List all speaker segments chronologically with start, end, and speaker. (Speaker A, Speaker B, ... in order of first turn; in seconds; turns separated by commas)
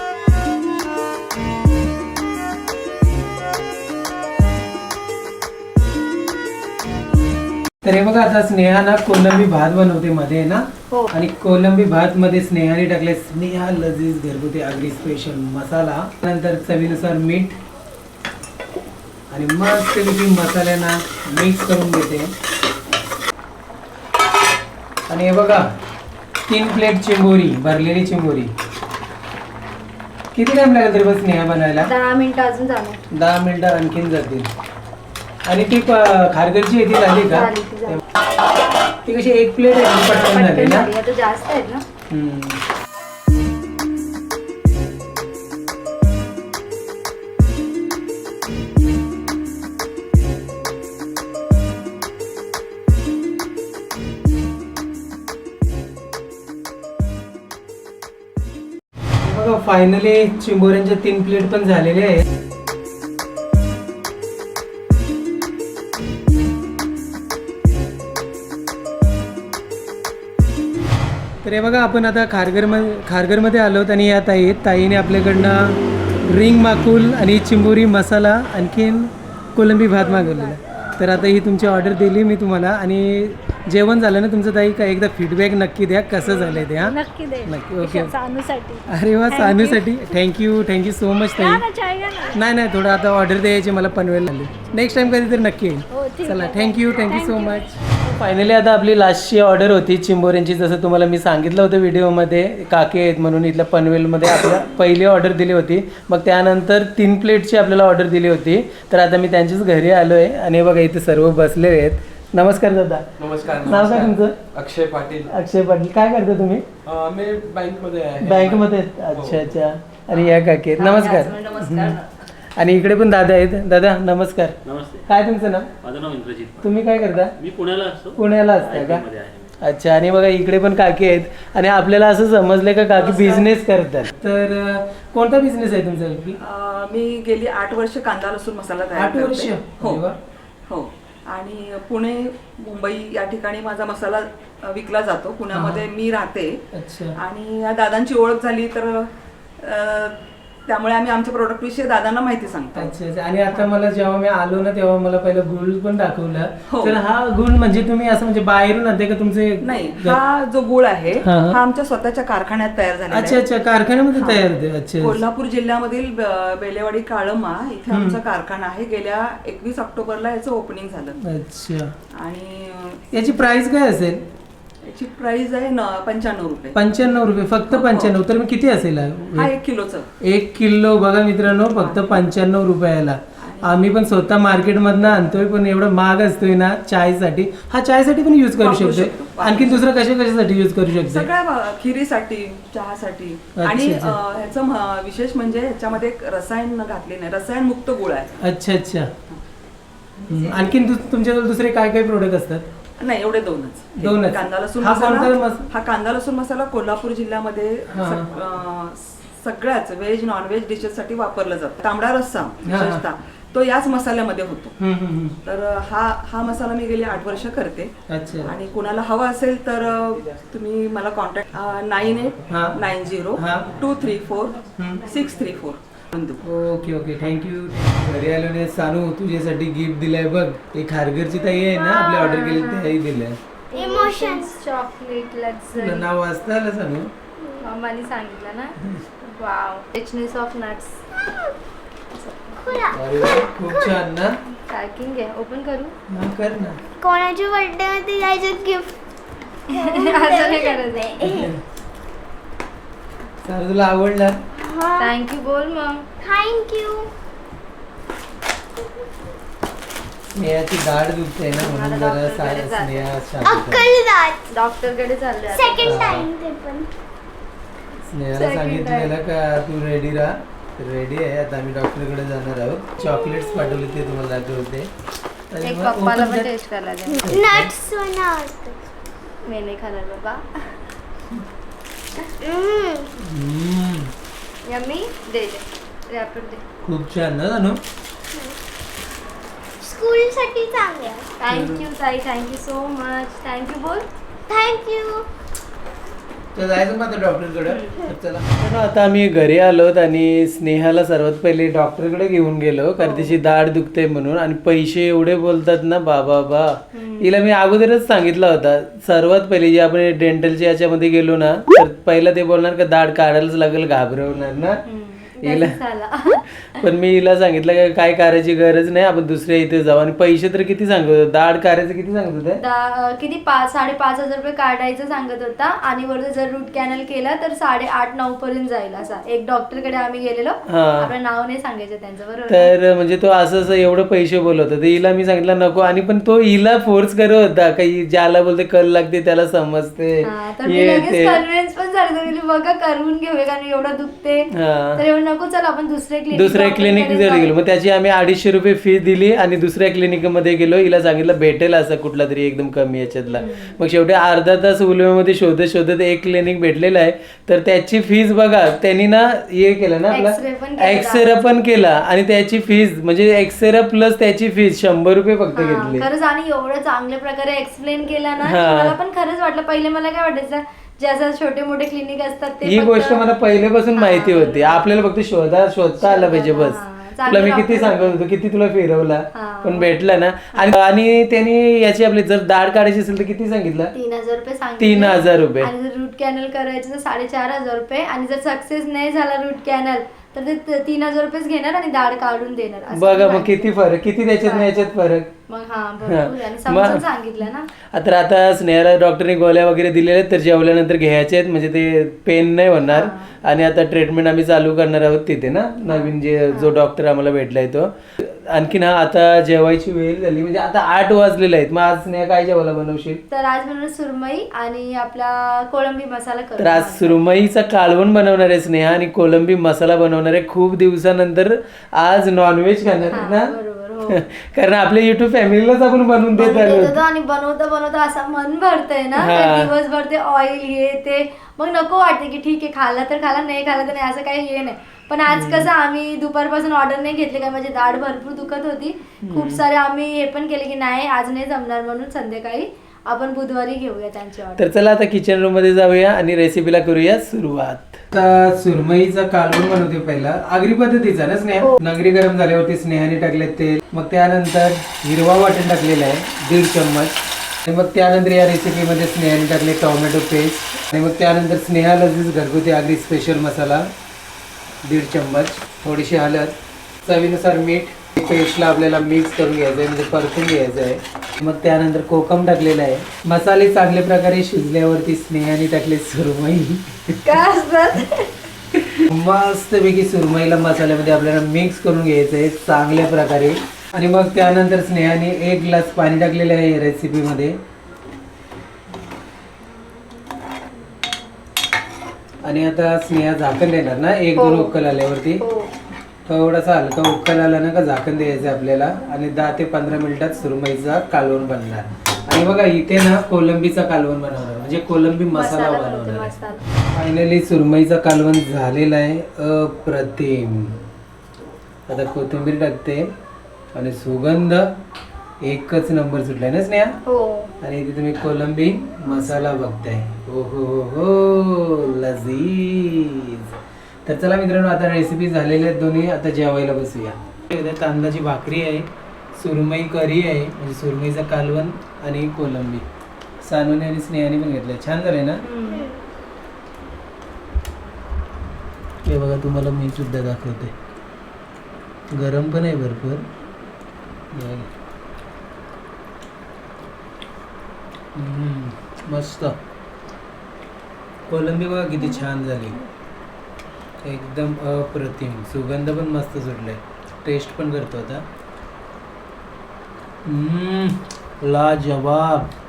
Speaker A: 7.8-17.6, Speaker A: 19.3-22.3, Speaker A: 25.1-25.6, Speaker A: 26.5-28.5, Speaker A: 30.3-31.9, Speaker B: 31.8-33.0, Speaker A: 33.1-34.5, Speaker A: 35.5-38.0, Speaker B: 37.3-38.0, Speaker A: 39.0-40.9, Speaker B: 40.0-41.8, Speaker A: 42.1-42.6, Speaker A: 59.2-62.2, Speaker A: 71.4-88.1, Speaker B: 80.0-80.6, Speaker B: 86.2-89.9, Speaker A: 88.9-91.6, Speaker B: 91.3-92.4, Speaker A: 92.3-113.0, Speaker B: 95.9-97.7, Speaker C: 113.2-115.3, Speaker A: 113.6-114.4, Speaker A: 115.3-116.7, Speaker C: 116.9-118.4, Speaker A: 118.2-122.0, Speaker D: 118.4-118.6, Speaker B: 120.8-122.0, Speaker A: 122.6-124.5, Speaker D: 124.6-125.1, Speaker A: 125.1-125.7, Speaker D: 125.8-126.8, Speaker A: 126.6-127.3, Speaker D: 127.4-129.5, Speaker A: 128.2-129.0, Speaker A: 129.6-136.4, Speaker E: 133.0-133.4, Speaker E: 136.4-140.0, Speaker A: 138.9-140.2, Speaker E: 140.7-146.6, Speaker A: 145.5-145.8, Speaker A: 146.7-147.2, Speaker E: 147.2-149.0, Speaker E: 149.6-150.2, Speaker E: 150.7-152.9, Speaker A: 152.8-160.2, Speaker E: 156.7-157.0, Speaker E: 159.6-163.4, Speaker A: 161.2-161.6, Speaker A: 163.1-165.2, Speaker E: 164.2-164.4, Speaker E: 165.0-171.2, Speaker A: 167.9-168.2, Speaker A: 171.2-171.9, Speaker E: 172.2-173.0, Speaker A: 173.1-174.2, Speaker E: 174.9-176.8, Speaker A: 176.7-179.5, Speaker E: 177.7-178.1, Speaker E: 179.3-180.1, Speaker A: 180.2-191.3, Speaker E: 181.7-182.2, Speaker E: 183.5-183.7, Speaker E: 188.6-189.8, Speaker E: 191.1-198.3, Speaker A: 193.6-194.2, Speaker A: 198.4-199.1, Speaker A: 200.3-202.6, Speaker E: 203.0-214.8, Speaker A: 204.0-205.7, Speaker A: 207.9-208.3, Speaker A: 212.6-213.0, Speaker A: 214.8-215.4, Speaker E: 215.4-217.9, Speaker A: 218.1-218.5, Speaker E: 218.4-226.4, Speaker A: 222.5-222.8, Speaker A: 223.3-223.7, Speaker A: 224.8-225.1, Speaker A: 226.4-233.4, Speaker B: 231.8-232.9, Speaker B: 233.7-236.1, Speaker F: 233.8-234.5, Speaker A: 235.8-237.1, Speaker B: 237.6-241.0, Speaker B: 242.1-242.9, Speaker F: 242.6-242.9, Speaker A: 242.9-244.3, Speaker B: 244.7-245.9, Speaker A: 246.1-246.8, Speaker F: 247.0-248.9, Speaker B: 249.7-251.5, Speaker F: 249.8-251.3, Speaker A: 251.2-251.6, Speaker A: 253.4-254.3, Speaker F: 254.6-255.0, Speaker B: 255.0-256.1, Speaker F: 256.2-257.1, Speaker A: 260.3-263.9, Speaker B: 261.5-263.1, Speaker F: 263.5-264.5, Speaker B: 264.5-266.1, Speaker F: 265.5-266.9, Speaker A: 265.8-266.3, Speaker A: 268.1-274.9, Speaker B: 268.3-269.1, Speaker A: 275.5-276.5, Speaker B: 275.6-277.3, Speaker A: 277.2-277.7, Speaker F: 277.3-278.8, Speaker B: 279.4-280.4, Speaker F: 282.4-283.1, Speaker A: 283.2-284.1, Speaker B: 284.6-286.6, Speaker A: 286.8-287.8, Speaker F: 289.8-291.3, Speaker B: 291.4-294.1, Speaker A: 291.5-291.8, Speaker F: 294.5-295.3, Speaker A: 296.5-314.8, Speaker B: 297.7-298.0, Speaker B: 303.0-303.3, Speaker B: 306.9-307.3, Speaker B: 314.9-316.4, Speaker A: 315.4-315.8, Speaker A: 316.7-322.6, Speaker B: 322.6-332.7, Speaker A: 330.7-331.1, Speaker A: 332.5-341.4, Speaker B: 340.2-347.5, Speaker A: 344.5-345.0, Speaker A: 346.3-366.1, Speaker B: 353.3-353.7, Speaker B: 360.1-361.4, Speaker B: 365.6-373.2, Speaker A: 368.4-369.0, Speaker A: 372.6-383.9, Speaker B: 374.0-374.8, Speaker B: 376.0-378.2, Speaker B: 379.3-379.9, Speaker B: 383.9-393.7, Speaker A: 384.8-385.7, Speaker A: 392.9-395.3, Speaker B: 394.4-394.9, Speaker B: 395.5-397.7, Speaker A: 396.1-397.0, Speaker A: 397.9-413.2, Speaker B: 402.9-403.3, Speaker B: 405.9-406.8, Speaker B: 413.3-417.2, Speaker A: 416.6-423.5, Speaker B: 423.1-424.2, Speaker A: 424.1-427.0, Speaker B: 426.4-444.6, Speaker A: 429.2-429.7, Speaker A: 435.3-435.7, Speaker A: 439.2-439.6, Speaker A: 444.6-463.9, Speaker A: 464.8-477.2, Speaker B: 477.2-478.3, Speaker A: 479.0-487.6, Speaker A: 492.4-495.4, Speaker B: 494.4-494.8, Speaker B: 495.4-495.7, Speaker A: 496.2-506.3, Speaker B: 505.3-506.6, Speaker A: 506.9-510.8, Speaker A: 511.9-513.1, Speaker A: 513.7-514.7, Speaker A: 515.4-517.0, Speaker B: 517.0-517.5, Speaker A: 517.6-523.5, Speaker A: 524.0-532.8, Speaker A: 533.4-535.4, Speaker B: 535.4-535.9, Speaker A: 539.0-540.7, Speaker A: 542.1-543.2, Speaker A: 544.3-544.7, Speaker A: 548.1-549.6, Speaker A: 551.3-552.8, Speaker A: 554.0-558.2, Speaker A: 560.2-562.5